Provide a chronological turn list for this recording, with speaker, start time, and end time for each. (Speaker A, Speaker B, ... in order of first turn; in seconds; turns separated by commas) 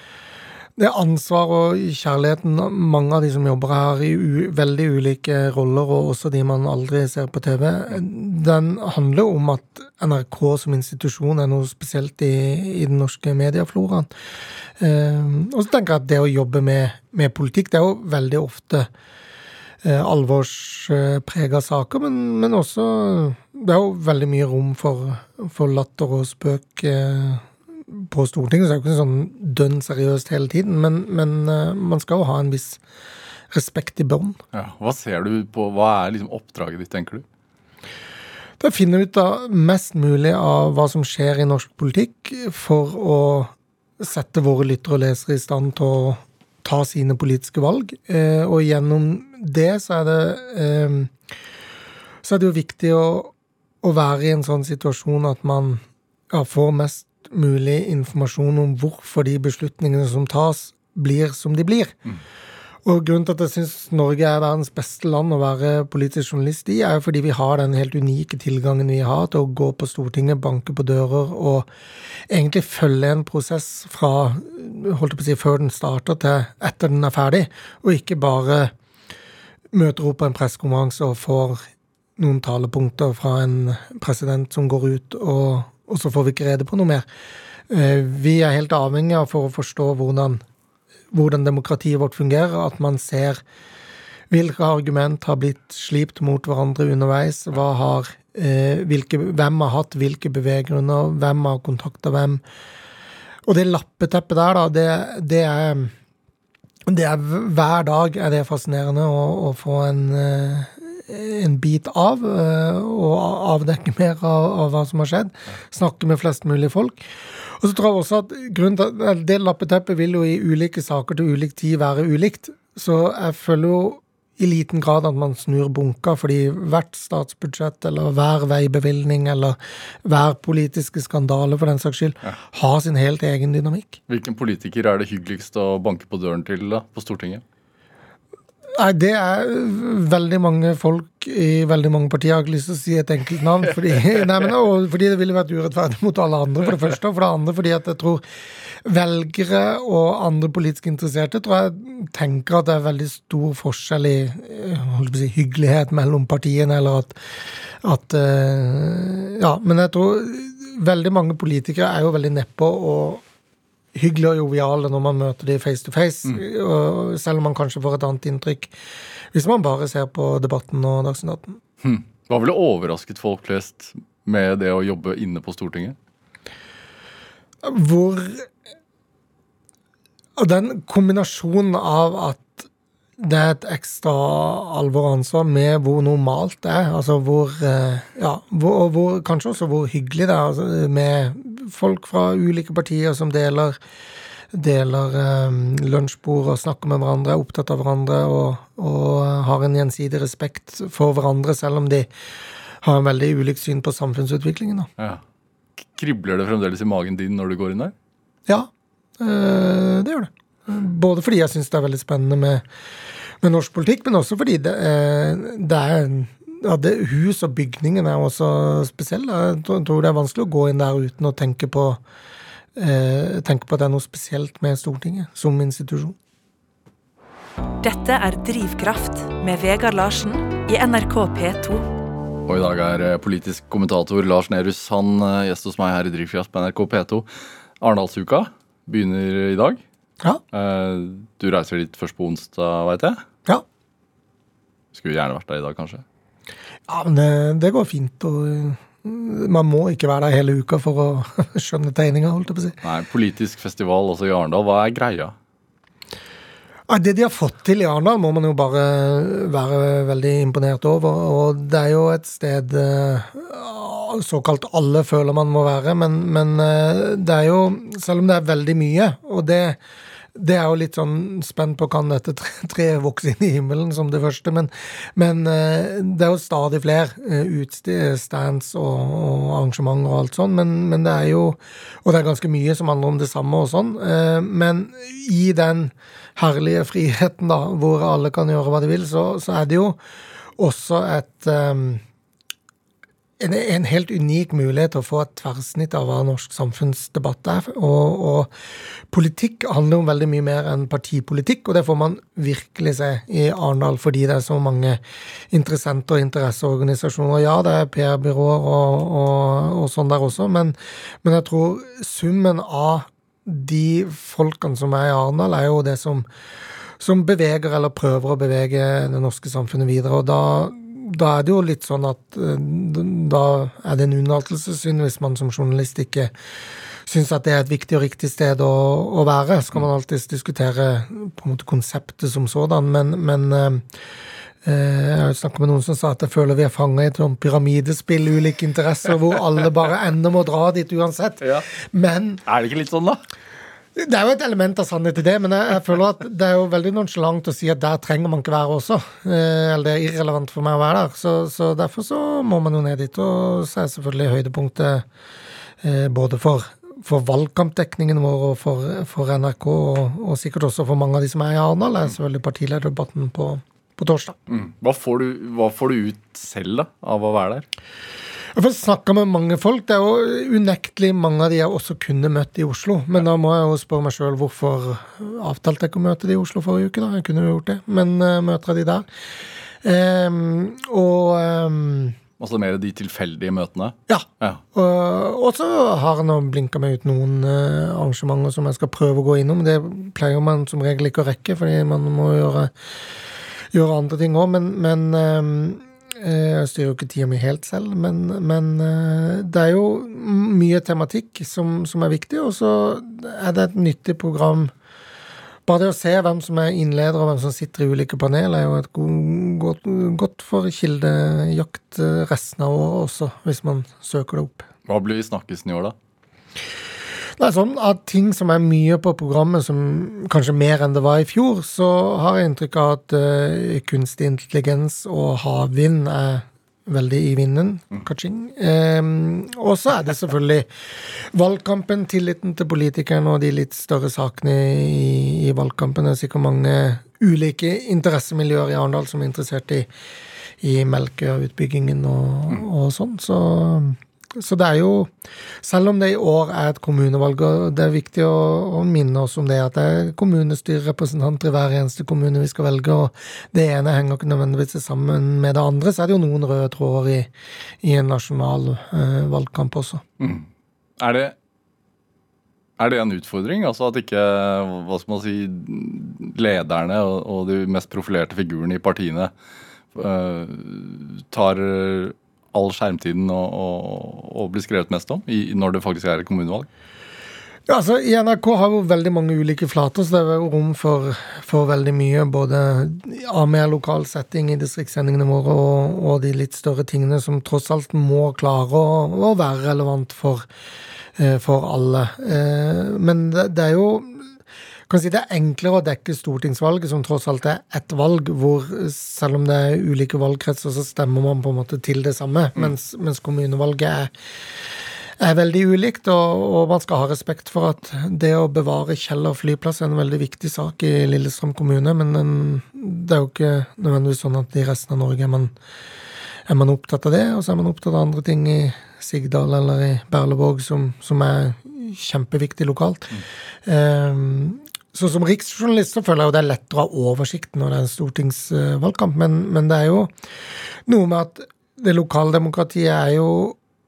Speaker A: 0.8-14.1, Speaker A: 14.8-18.9, Speaker A: 19.8-32.8, Speaker A: 33.5-34.4, Speaker B: 34.5-37.2, Speaker A: 38.6-51.1, Speaker A: 52.2-62.0, Speaker A: 62.9-71.7, Speaker A: 72.3-78.7, Speaker A: 79.7-81.6, Speaker A: 82.2-87.1, Speaker A: 87.7-90.4, Speaker A: 91.1-93.4, Speaker A: 94.3-102.4, Speaker A: 103.5-105.9, Speaker A: 106.9-134.0, Speaker B: 134.1-137.4, Speaker A: 138.7-148.2, Speaker A: 148.8-163.2, Speaker A: 163.9-168.7, Speaker A: 169.3-171.6, Speaker B: 171.8-176.0, Speaker A: 177.6-178.5, Speaker A: 180.4-193.8, Speaker A: 194.5-202.1, Speaker A: 202.8-204.9, Speaker B: 205.9-207.9, Speaker A: 208.5-212.7, Speaker A: 213.4-222.0, Speaker A: 222.8-226.2, Speaker C: 227.8-231.9, Speaker B: 232.5-237.3, Speaker B: 237.8-239.8, Speaker B: 240.5-243.2, Speaker B: 244.9-246.0, Speaker A: 246.9-252.8, Speaker B: 252.8-255.3, Speaker A: 256.9-269.8, Speaker A: 270.4-290.0, Speaker A: 290.6-292.0, Speaker A: 293.4-298.5, Speaker A: 299.1-316.3, Speaker A: 317.0-326.3, Speaker A: 327.1-333.9, Speaker A: 334.6-342.4, Speaker B: 342.5-343.2, Speaker A: 344.0-355.1, Speaker A: 355.8-364.4, Speaker B: 364.5-367.7, Speaker A: 368.6-379.1, Speaker A: 379.8-382.2, Speaker B: 382.4-384.6, Speaker A: 384.1-392.7, Speaker A: 393.7-404.7, Speaker A: 405.7-414.7, Speaker B: 414.9-415.9, Speaker A: 417.4-439.9, Speaker A: 440.6-445.1, Speaker A: 445.6-460.0, Speaker B: 460.2-460.5, Speaker B: 461.0-461.4, Speaker B: 462.8-469.3, Speaker B: 469.9-476.7, Speaker A: 477.7-490.5, Speaker A: 491.2-494.3, Speaker A: 494.9-504.1, Speaker A: 505.2-515.5, Speaker A: 516.5-530.1, Speaker A: 530.9-533.6